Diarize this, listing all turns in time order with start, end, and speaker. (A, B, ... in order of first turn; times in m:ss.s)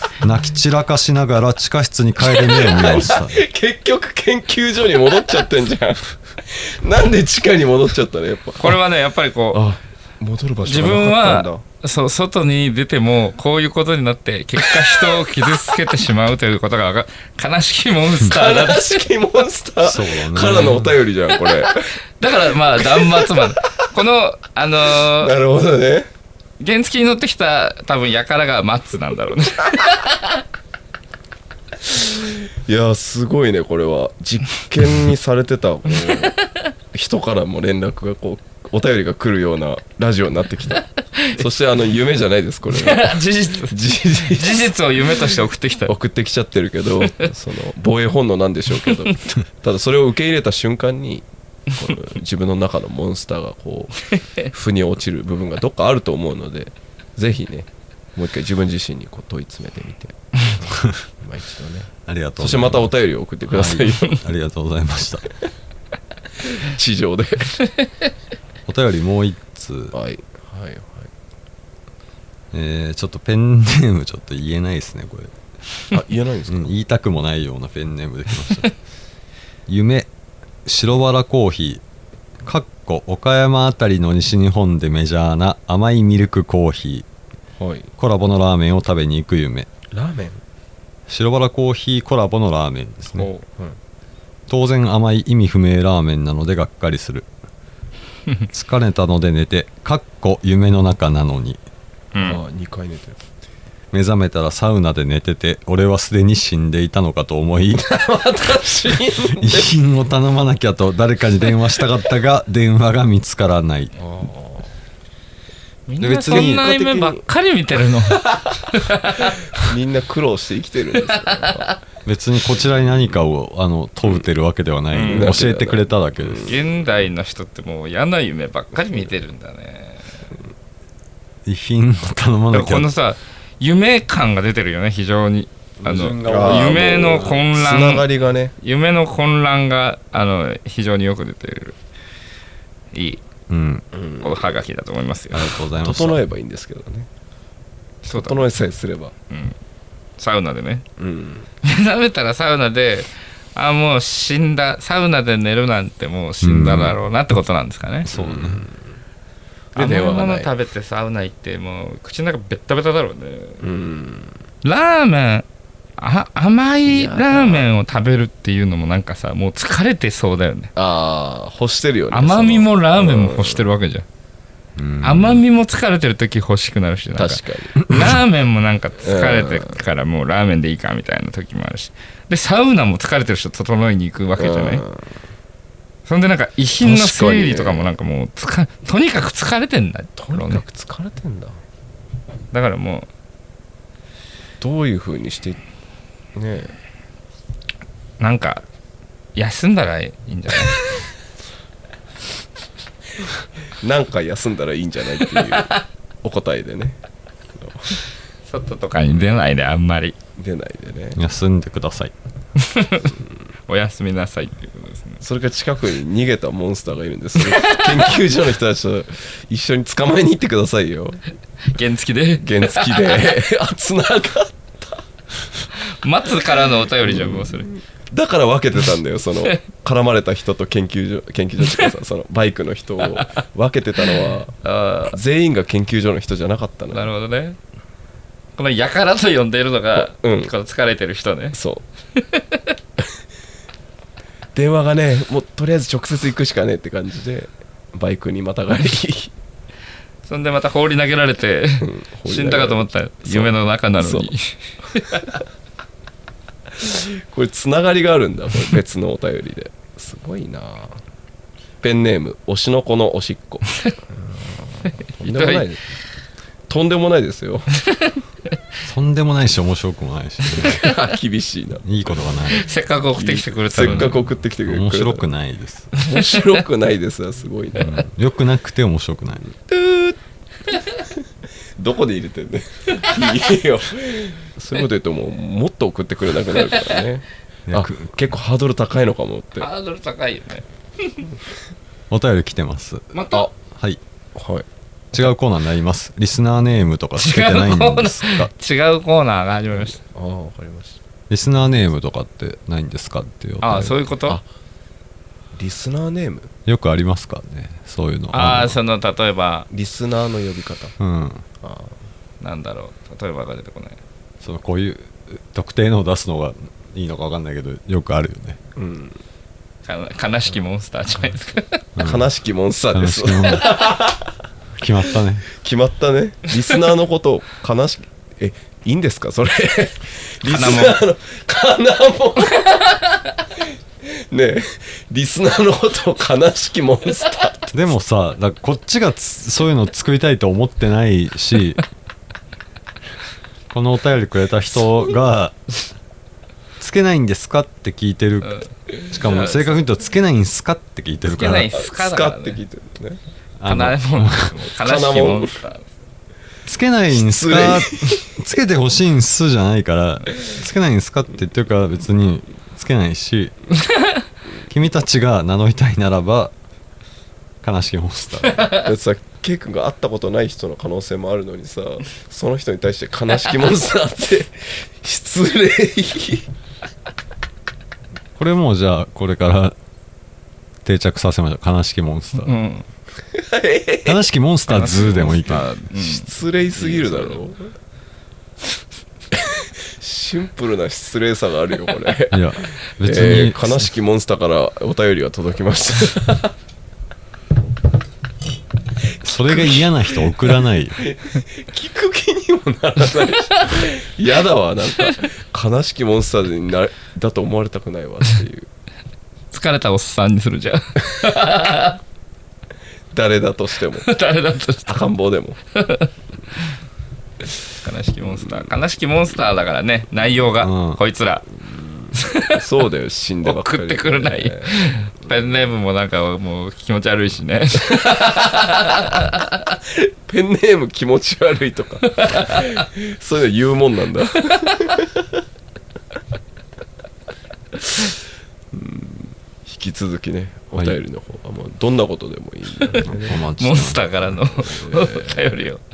0:00.2-0:03.4 A
0:02.3-0:08.8 B
0:08.6-0:09.6 C
0:09.5-0:11.6 B
0:10.6-0:19.0 C
0:18.2-0:21.8 B
0:19.8-0:20.9 A
0:22.2-0:25.3 C
0:22.8-0:23.6 B
0:24.9-0:26.1 B
0:26.6-0:30.3 C
0:31.8-0:36.4 B
0:36.9-1:00.6 B
0:42.7-0:45.9 C
1:01.2-1:04.2 B
1:02.0-1:02.9 A
1:03.4-1:05.3 A
1:06.4-1:07.6 B
1:08.7-1:09.9 A
1:09.9-1:11.1 B
1:12.5-1:15.3 A
1:15.9-1:16.7 B
1:16.5-1:18.8 A
1:19.7-1:20.1 A
1:20.6-1:21.8 A
1:22.4-1:27.1 A
1:27.6-1:27.9 B
1:28.0-1:29.7 A
1:29.9-1:30.4 B
1:31.1-1:33.3 A
1:33.2-1:33.8 B
1:34.5-1:37.3 A
1:38.5-1:41.6 A
1:42.1-1:42.4 C
1:42.2-1:43.2 B
1:43.9-1:47.9 A
1:47.7-1:49.7 B
1:49.4-1:53.9 A
1:54.0-1:54.7 B
1:55.9-1:59.4 C
1:56.0-1:56.6 A
1:56.2-1:57.2 B
1:59.6-2:01.7 B
2:02.0-2:06.6 A
2:04.9-2:05.4 C
2:05.0-2:06.5 B
2:06.4-2:10.2 C
2:11.4-2:12.9 A
2:12.5-2:18.0 C
2:15.8-2:17.5 A
2:16.2-2:18.5 B
2:18.6-2:21.8 C
2:22.9-2:23.2 C
2:23.5-2:23.8 A
2:23.9-2:24.5 B
2:24.2-2:25.5 C
2:25.3-2:26.2 A
2:25.8-2:27.1 B
2:28.0-2:29.1 B
2:28.1-2:28.5 C
2:29.3-2:29.6 C
2:30.2-2:30.8 C
2:31.0-2:31.5 B
2:31.6-2:38.1 C
2:36.4-2:37.0 A
2:38.1-2:38.6 A
2:38.1-2:38.9 B
2:39.7-2:40.5 B
2:39.8-2:43.6 C
2:43.6-2:44.3 B
2:44.6-2:45.4 C
2:46.0-2:50.7 C
2:46.8-2:47.7 B
2:50.8-2:53.6 B
2:52.1-2:54.0 C
2:54.8-2:55.4 A
2:55.0-3:04.8 C
2:57.1-2:57.8 B
2:59.0-2:59.7 B
3:04.4-3:05.1 B
3:06.0-3:10.6 C
3:06.8-3:07.9 B
3:10.2-3:11.6 B
3:12.5-3:13.1 C
3:14.6-3:15.6 B
3:16.3-3:16.7 B
3:18.2-3:18.6 C
3:19.3-3:20.9 C
3:23.8-3:27.0 B
3:27.6-3:28.0 B
3:28.5-3:30.1 C
3:30.4-3:31.2 B
3:31.2-3:32.1 A
3:32.6-3:33.1 C
3:33.7-3:35.2 C
3:35.2-3:41.2 B
3:37.4-3:38.1 C
3:41.7-3:43.3 C
3:42.4-3:45.0 B
3:45.9-3:47.7 C
3:47.0-3:54.5 B
3:54.0-3:55.2 C
3:55.1-3:57.1 B
3:56.9-3:57.6 C
3:58.6-4:01.6 C
4:00.0-4:00.5 B
4:01.5-4:01.8 B
4:02.2-4:02.7 C
4:04.5-4:09.3 B
4:10.2-4:15.4 C
4:11.8-4:14.3 B
4:16.7-4:21.0 B
4:21.8-4:25.8 B
4:25.2-4:25.6 C
4:26.7-4:27.7 B
4:27.8-4:28.2 C
4:28.8-4:30.8 A
4:30.5-4:32.5 B
4:31.8-4:32.7 A
4:32.5-4:34.2 C
4:33.1-4:35.2 B
4:33.8-4:35.9 A
4:36.0-4:38.0 B
4:37.8-4:39.4 A
4:39.6-4:40.2 B
4:41.8-4:49.7 B
4:47.7-4:48.0 A
4:49.6-4:51.2 C
4:52.1-4:53.2 A
4:53.1-4:53.5 C
4:53.7-4:54.0 A
4:54.3-4:54.6 B
4:55.1-4:58.5 A
4:57.2-5:00.0 C
4:59.8-5:01.0 B
5:01.3-5:03.9 A
5:03.6-5:04.4 C
5:03.7-5:04.4 B
5:05.5-5:06.5 B
5:06.6-5:08.8 A
5:08.3-5:09.7 C
5:09.7-5:10.9 B
5:11.0-5:11.4 A
5:11.6-5:11.9 B
5:12.4-5:14.0 C
5:14.4-5:18.6 A
5:18.8-5:19.2 B
5:19.8-5:21.8 C
5:22.0-5:22.3 A
5:22.0-5:24.3 B
5:22.9-5:23.8 A
5:24.8-5:25.5 A
5:25.6-5:33.0 B
5:30.4-5:31.0 C
5:34.3-5:37.9 B
5:37.7-5:41.8 A
5:43.7-5:45.6 A
5:46.8-5:51.7 A
5:48.4-5:49.8 C
5:51.2-5:52.6 C
5:51.5-5:53.2 B
5:53.6-5:54.5 A
5:53.6-5:55.9 C
5:54.7-5:55.5 B
5:56.6-6:03.5 A
5:57.1-5:58.3 B
6:03.9-6:04.2 C
6:04.7-6:06.5 A
6:07.6-6:08.7 A
6:08.7-6:16.4 B
6:18.4-6:19.8 A
6:20.8-6:22.5 A
6:22.4-6:22.8 C
6:23.3-6:24.2 B
6:24.0-6:25.7 A
6:24.7-6:27.4 C
6:25.6-6:27.7 B
6:29.3-6:36.5 B
6:32.3-6:33.9 A
6:39.2-6:41.0 A
6:39.4-6:40.3 B
6:41.0-6:48.7 B
6:49.5-6:52.0 C
6:53.1-6:54.1 B
6:54.0-6:55.1 C
6:54.8-6:55.6 B
6:55.8-6:56.1 C
6:57.8-7:01.5 C
6:58.3-6:58.7 B
7:00.6-7:01.0 A
7:02.1-7:02.6 C
7:02.5-7:04.7 B
7:03.4-7:08.4 C
7:07.9-7:08.7 B
7:09.7-7:15.2 B
7:12.1-7:12.7 C
7:18.7-7:23.4 B
7:23.1-7:24.0 A
7:23.6-7:25.8 C
7:24.6-7:25.5 B